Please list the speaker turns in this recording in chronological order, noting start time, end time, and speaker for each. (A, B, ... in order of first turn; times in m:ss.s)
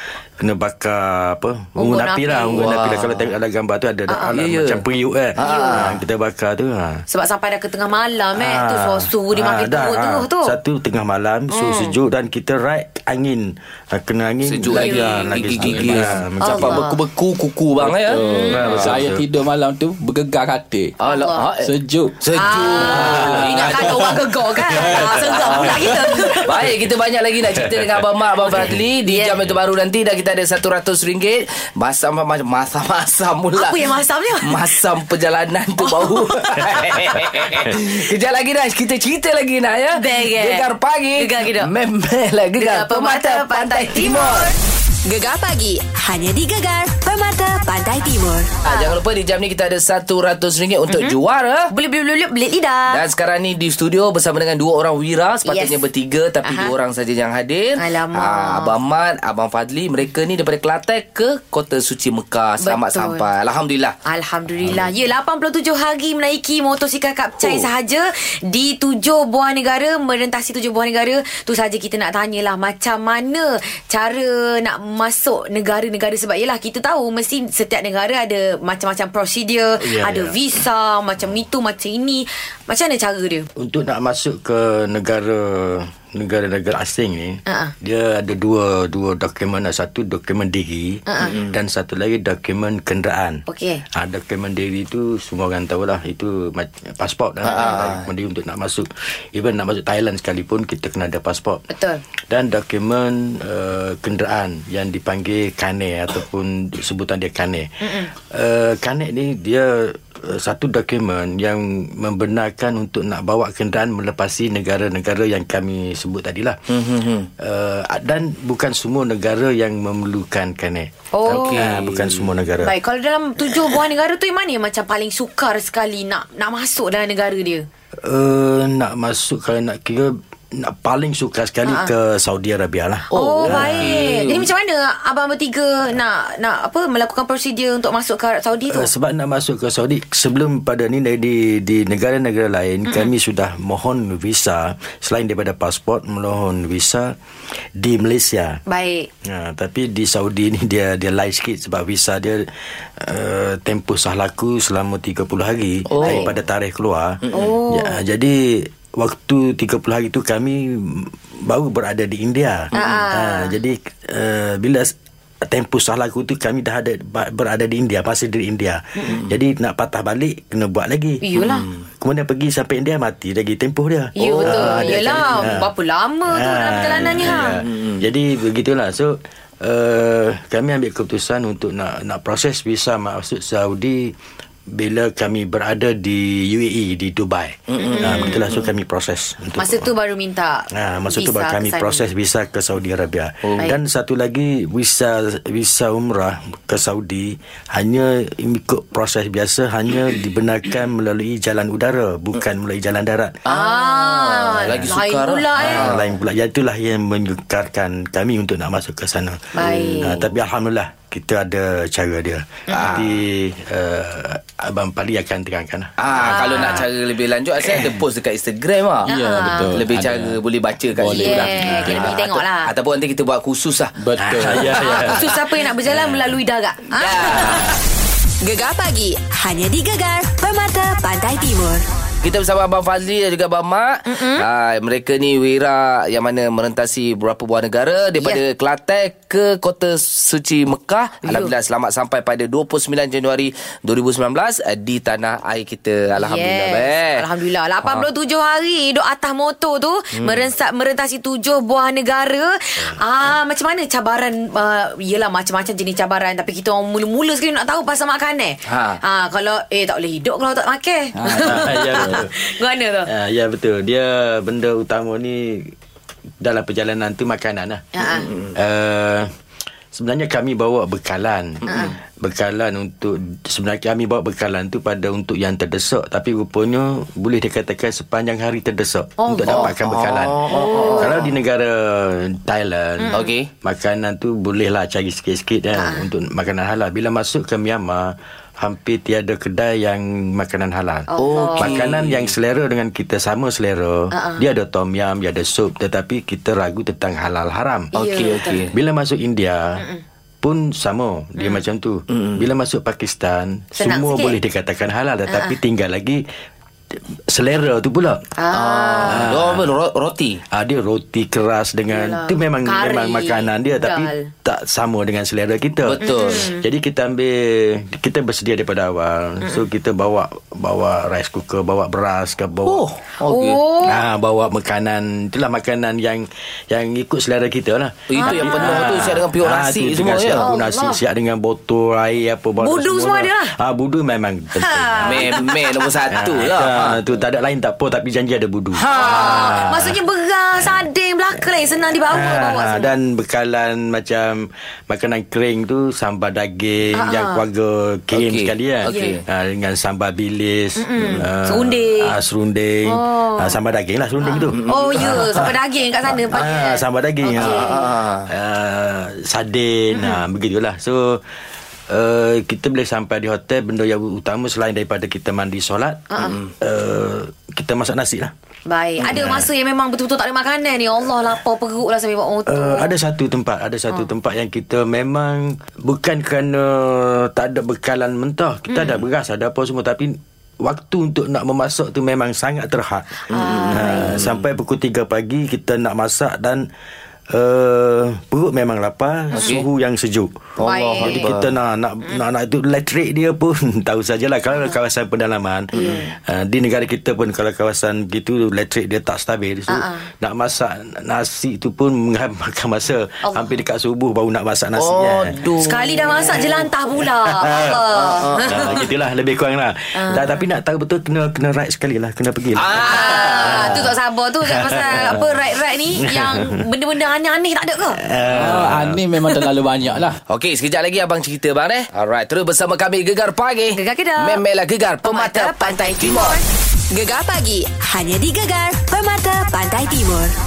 0:00.4-0:07.0 A
0:01.8-0:02.8 B
0:02.5-0:03.3 C
0:04.1-0:04.4 B
0:04.3-0:04.8 C
0:05.4-0:06.0 C
0:05.4-0:05.9 B
0:07.1-0:10.6 B
0:08.3-0:16.8 A
0:11.5-0:12.0 B
0:14.4-0:19.0 C
0:14.7-0:15.4 B
0:15.4-0:16.2 D
0:16.4-0:17.0 B
0:17.8-0:21.0 D
0:18.2-0:18.6 B
0:18.5-0:19.2 A
0:21.0-0:21.7 C
0:21.0-0:21.5 B
0:21.6-0:22.2 D
0:22.2-0:23.6 A
0:22.3-0:24.2 C
0:22.3-0:26.5 B
0:22.8-0:24.0 D
0:24.8-0:26.8 A
0:25.0-0:25.7 D
0:25.1-0:44.5 C
0:27.5-0:28.0 A
0:28.4-0:29.4 B
0:33.6-0:34.8 B
0:35.8-0:37.0 B
0:39.9-0:41.7 B
0:42.6-0:44.5 B
0:45.0-0:48.6 E
0:48.6-0:51.7 C
0:48.6-0:49.0 B
0:50.9-0:51.2 B
0:51.7-0:53.0 B
0:52.9-1:03.9 C
0:55.4-0:55.8 B
0:56.4-0:56.7 B
0:57.8-0:58.8 B
1:02.6-1:03.2 B
1:04.0-1:23.5 B
1:07.4-1:07.7 C
1:19.8-1:20.4 A
1:23.6-1:41.6 A
1:27.4-1:27.7 B
1:31.1-1:31.3 B
1:31.2-1:31.6 C
1:33.5-1:33.8 B
1:37.4-1:38.1 C
1:41.7-1:42.0 B
1:42.3-1:47.7 A
1:47.8-1:48.1 B
1:48.2-1:56.6 A
1:56.7-1:57.3 C
1:57.4-2:02.7 A
2:01.1-2:01.7 B
2:01.2-2:02.3 C
2:02.6-2:07.7 B
2:08.0-2:14.0 A
2:11.6-2:11.9 B
2:13.1-2:14.5 C
2:13.1-2:18.9 B
2:18.7-2:27.1 A
2:22.8-2:23.1 B
2:27.8-2:28.6 A
2:28.7-2:29.1 B
2:29.2-2:44.9 A
2:35.9-2:36.3 C
2:37.2-2:37.5 C
2:37.3-2:38.0 B
2:42.7-2:43.0 C
2:42.8-2:43.6 B
2:45.4-2:51.3 A
2:49.1-2:49.4 C
2:51.2-2:51.6 B
2:51.4-2:51.8 C
2:52.0-2:55.7 A
2:54.2-2:57.6 B
2:54.2-2:55.7 C
2:56.3-3:04.1 A
2:57.0-2:58.1 C
3:04.7-3:09.9 A
3:07.7-3:08.7 C
3:07.8-3:08.4 B
3:09.6-3:12.0 B
3:10.7-3:23.4 A
3:13.4-3:13.7 C
3:23.4-3:26.2 C
3:23.5-3:25.9 B
3:25.5-3:36.8 A
3:29.5-3:30.2 B
3:29.6-3:30.3 C
3:32.7-3:33.2 C
3:32.7-3:33.0 B
3:36.0-3:43.9 C
3:36.1-3:36.9 B
3:37.6-3:38.0 A
3:39.0-3:40.4 D
3:39.1-3:39.8 B
3:40.9-3:42.2 D
3:41.1-3:42.7 B
3:44.0-3:44.8 D
3:44.1-3:45.3 A
3:44.6-3:45.3 C
3:44.8-3:47.7 B
3:45.8-3:46.4 A
3:46.9-3:47.8 C
3:47.3-3:47.7 A
3:48.4-3:51.8 E
3:52.2-4:07.2 C
3:54.0-3:54.4 B
4:01.2-4:01.5 B
4:06.2-4:23.1 B
4:10.1-4:10.4 C
4:18.7-4:19.0 C
4:21.2-4:22.2 D
4:21.4-4:22.3 A
4:23.0-4:25.7 A
4:26.4-4:27.8 A
4:27.9-4:28.3 B
4:28.0-4:28.5 C
4:28.5-4:29.3 A
4:29.9-4:59.8 A
4:31.6-4:31.9 C
4:31.7-4:31.9 B
4:39.2-4:39.7 B
4:39.4-4:41.3 C
4:40.5-4:41.1 B
4:43.0-4:43.3 B
4:43.1-4:43.5 C
4:45.7-4:46.1 B
4:51.1-4:51.7 B
4:51.2-4:52.3 C
4:54.1-4:54.4 B
4:57.9-4:58.7 C
4:57.9-4:58.6 B
4:59.8-5:00.0 B
5:00.4-5:06.2 A
5:01.4-5:01.6 B
5:02.1-5:02.5 C
5:03.7-5:04.4 B
5:05.3-5:05.6 B
5:07.3-5:08.3 A
5:08.4-5:09.3 B
5:08.5-5:10.4 C
5:09.0-5:09.7 A
5:10.5-5:22.8 A
5:11.9-5:14.3 B
5:15.8-5:16.5 C
5:16.0-5:16.6 B
5:22.6-5:23.6 C
5:23.2-5:24.0 B
5:23.8-5:35.4 A
5:28.1-5:30.4 C
5:28.2-5:29.2 B
5:30.4-5:31.0 B
5:32.6-5:33.5 B
5:34.6-5:35.4 B
5:35.0-5:37.0 C
5:36.1-5:40.0 A
5:38.8-5:39.7 C
5:38.9-5:42.9 B
5:42.1-5:55.5 A
5:46.9-5:47.4 B
5:48.1-5:49.2 C
5:48.9-5:49.2 B
5:50.8-5:52.1 B
5:51.0-5:51.2 C
5:52.9-5:53.6 B
5:54.2-5:57.9 B
5:54.5-5:55.4 C
5:56.1-6:01.2 A
5:57.3-5:58.3 C
5:59.9-6:00.2 B
6:01.9-6:08.3 A
6:06.1-6:06.4 B
6:06.2-6:06.5 C
6:08.7-6:12.9 B
6:09.0-6:09.5 A
6:12.5-6:26.6 A
6:18.7-6:19.0 B
6:23.3-6:24.2 B
6:23.3-6:24.4 C
6:27.3-6:30.4 A
6:29.3-6:29.6 C
6:30.6-6:31.5 C
6:30.6-6:31.3 B
6:31.0-6:45.4 A
6:35.7-6:36.1 C
6:35.7-6:36.1 B
6:39.7-6:40.1 B
6:43.2-6:43.6 B
6:44.8-6:46.6 C
6:45.5-6:48.8 B
6:47.0-6:47.8 A
6:47.9-6:48.8 C
6:48.4-6:55.4 A
6:49.9-6:50.4 B
6:52.5-6:53.8 C
6:52.8-6:58.0 B
6:55.9-6:56.6 A
6:58.0-6:59.4 A
6:58.3-7:00.2 D
7:00.3-7:06.4 C
7:03.7-7:04.4 B
7:05.0-7:06.4 B
7:06.9-7:10.3 E